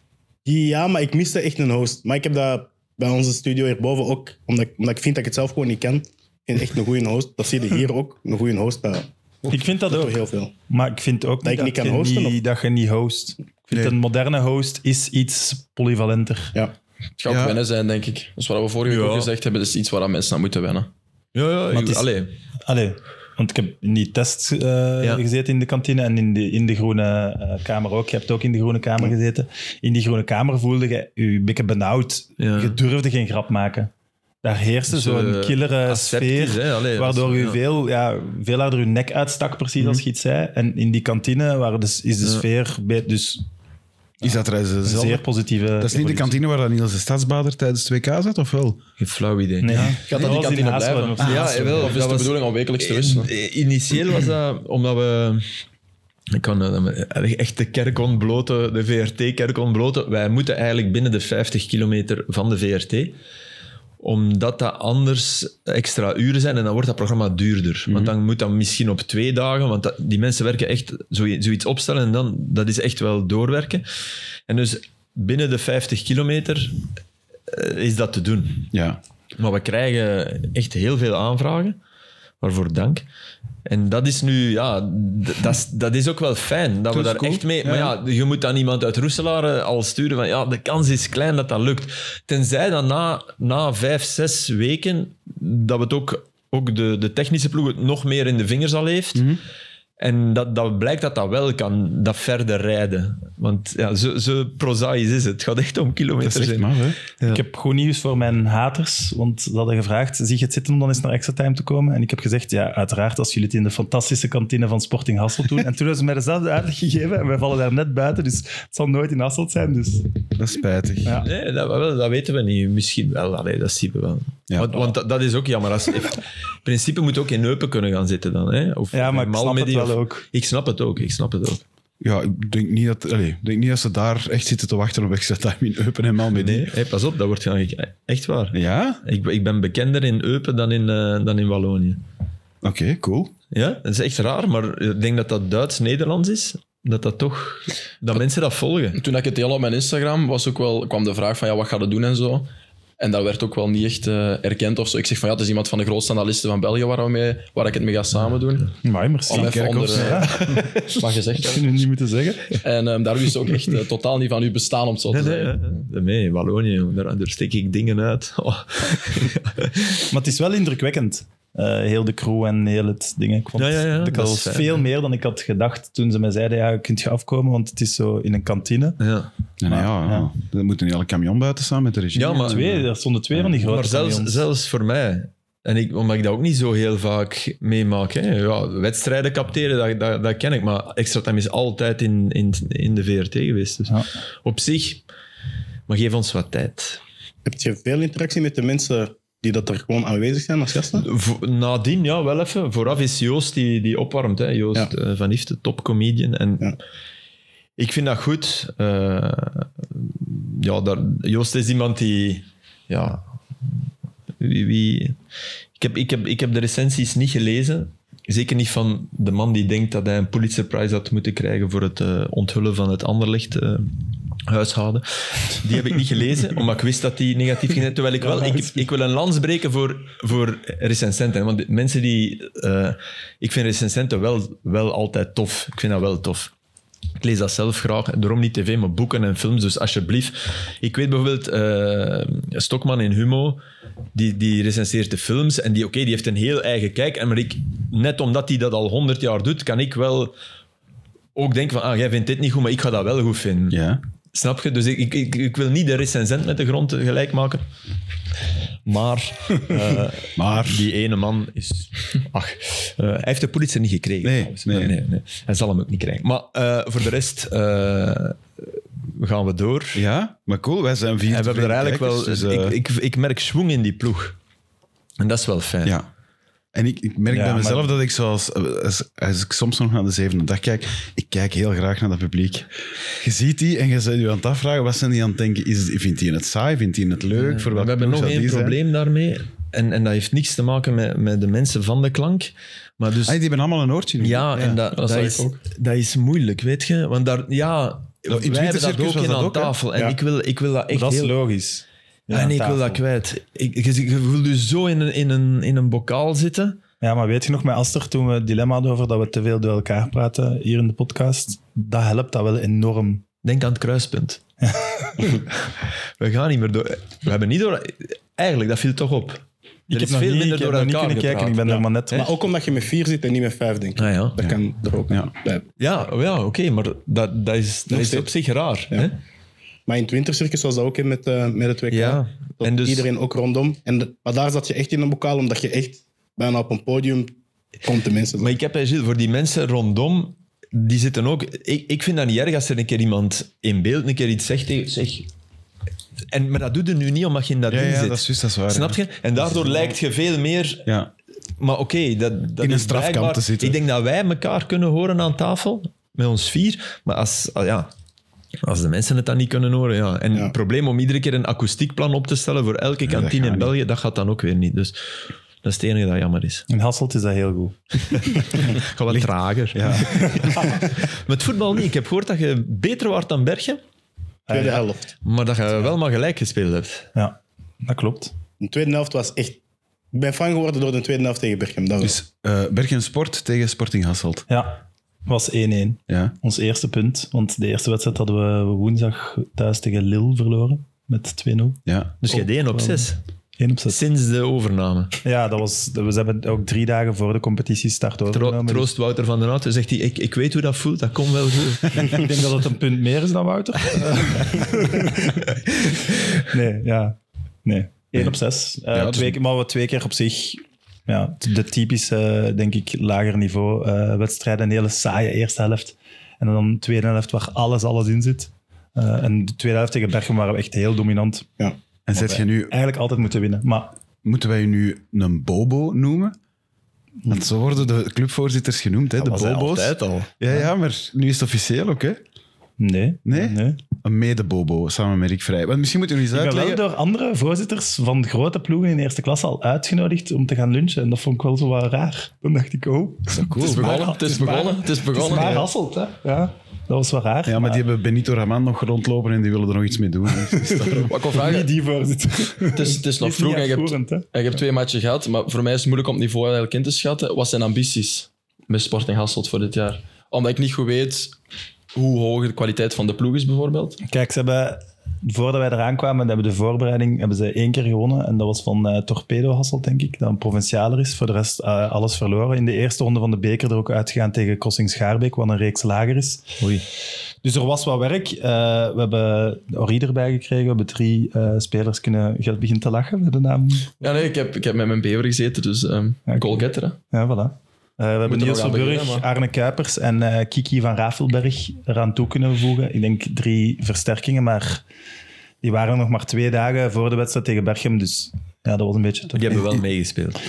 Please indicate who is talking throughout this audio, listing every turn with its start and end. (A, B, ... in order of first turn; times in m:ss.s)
0:00.4-0:10.5 A
0:09.5-0:16.5 B
0:11.4-0:12.4 A
0:17.2-0:20.9 C
0:17.3-0:17.6 D
0:18.9-0:19.3 E
0:21.3-0:22.3 E
0:21.7-0:22.1 B
0:22.6-0:33.9 B
0:32.4-0:32.8 E
0:34.4-0:43.4 B
0:34.9-0:37.6 E
0:44.2-0:45.2 D
0:44.2-0:46.4 B
0:45.8-0:48.8 D
0:49.0-0:50.3 E
0:49.6-0:51.9 B
0:50.1-0:53.3 C
0:51.2-0:55.5 E
0:56.3-1:03.2 E
1:04.0-1:13.8 E
1:07.9-1:08.1 D
1:14.5-1:16.8 E
1:17.5-1:18.7 E
1:18.7-1:19.0 D
1:19.4-1:21.8 E
1:22.4-1:23.0 E
1:23.6-1:39.3 E
1:26.9-1:28.0 D
1:39.1-1:39.4 D
1:40.0-1:47.4 E
1:46.2-1:47.0 D
1:47.2-2:00.1 B
2:00.4-2:01.2 D
2:01.2-2:11.6 E
2:04.5-2:04.8 D
2:08.9-2:10.2 B
2:12.0-2:16.7 D
2:16.3-2:22.0 E
2:18.5-2:19.0 D
2:22.6-2:23.3 D
2:23.5-2:29.0 E
2:28.9-2:32.5 C
2:33.0-2:38.7 C
2:38.8-2:40.6 B
2:39.3-2:41.7 C
2:39.3-2:40.6 D
2:41.4-2:42.6 B
2:42.6-2:45.8 C
2:45.1-2:50.0 E
2:50.1-2:59.0 B
2:53.6-2:54.8 E
2:59.0-2:59.3 E
2:59.6-3:02.8 D
2:59.7-3:00.3 B
3:02.1-3:02.7 E
3:02.4-3:04.4 B
3:03.6-3:15.0 E
3:15.9-3:17.0 E
3:17.4-3:21.1 A
3:20.9-3:26.8 E
3:27.8-3:33.2 E
3:34.4-3:35.2 E
3:35.8-3:56.5 E
3:48.2-3:48.8 B
3:57.2-4:03.6 E
4:04.1-4:10.3 E
4:11.3-4:13.8 E
4:13.7-4:14.0 D
4:14.3-4:17.6 E
4:18.8-4:30.0 E
4:20.4-4:20.9 D
4:24.2-4:24.9 D
4:29.9-4:32.8 D
4:31.3-4:34.4 E
4:35.2-4:36.0 E
4:36.7-4:48.8 D
4:37.3-4:37.9 B
4:47.3-4:53.4 E
4:53.2-4:54.8 D
4:54.2-5:01.3 E
4:54.9-4:55.6 C
4:58.3-4:59.7 D
5:00.9-5:03.0 B
5:02.3-5:06.8 E
5:07.0-5:13.2 B
5:13.4-5:14.4 E
5:14.6-5:15.3 B
5:15.7-5:22.3 E
5:19.9-5:22.3 B
5:22.1-5:25.6 A
5:24.0-5:24.4 E
5:25.8-5:29.1 E
5:27.9-5:28.3 A
5:29.9-5:38.5 A
5:31.9-5:33.1 E
5:38.4-5:45.3 E
5:46.3-5:50.9 E
5:47.7-5:49.0 D
5:50.8-5:51.1 D
5:51.6-5:57.9 E
5:52.6-5:53.8 D
5:58.6-6:05.0 E
6:03.0-6:03.7 D
6:05.6-6:06.6 E
6:06.7-6:08.6 B
6:08.3-6:13.8 E
6:09.1-6:10.7 D
6:09.9-6:10.7 B
6:14.5-6:14.8 B
6:14.5-6:15.1 A
6:15.2-6:17.1 E
6:17.1-6:18.3 B
6:18.6-6:19.6 A
6:20.1-6:22.2 A
6:22.0-6:24.4 D
6:24.5-6:34.0 B
6:26.1-6:26.3 D
6:31.8-6:32.1 D
6:32.2-6:33.2 E
6:33.9-6:35.2 E
6:35.2-6:38.9 B
6:38.3-6:42.2 E
6:42.0-6:45.5 B
6:46.4-7:01.5 B
6:48.9-6:49.4 D
7:02.1-7:02.7 D
7:02.1-7:03.9 B
7:04.2-7:06.3 D
7:07.3-7:12.2 D
7:09.2-7:10.3 E
7:12.8-7:13.8 B
7:13.2-7:16.8 D
7:16.3-7:27.8 B
7:23.3-7:24.0 D
7:23.6-7:25.7 C
7:27.5-7:31.1 D
7:30.5-7:34.3 B
7:31.0-7:31.7 C
7:32.6-7:41.4 C
7:41.9-7:44.0 C
7:44.0-7:56.5 B
7:57.4-8:03.9 B
8:04.0-8:07.0 C
8:06.3-8:14.8 B
8:08.2-8:09.3 C
8:15.6-8:19.7 B
8:19.3-8:20.4 E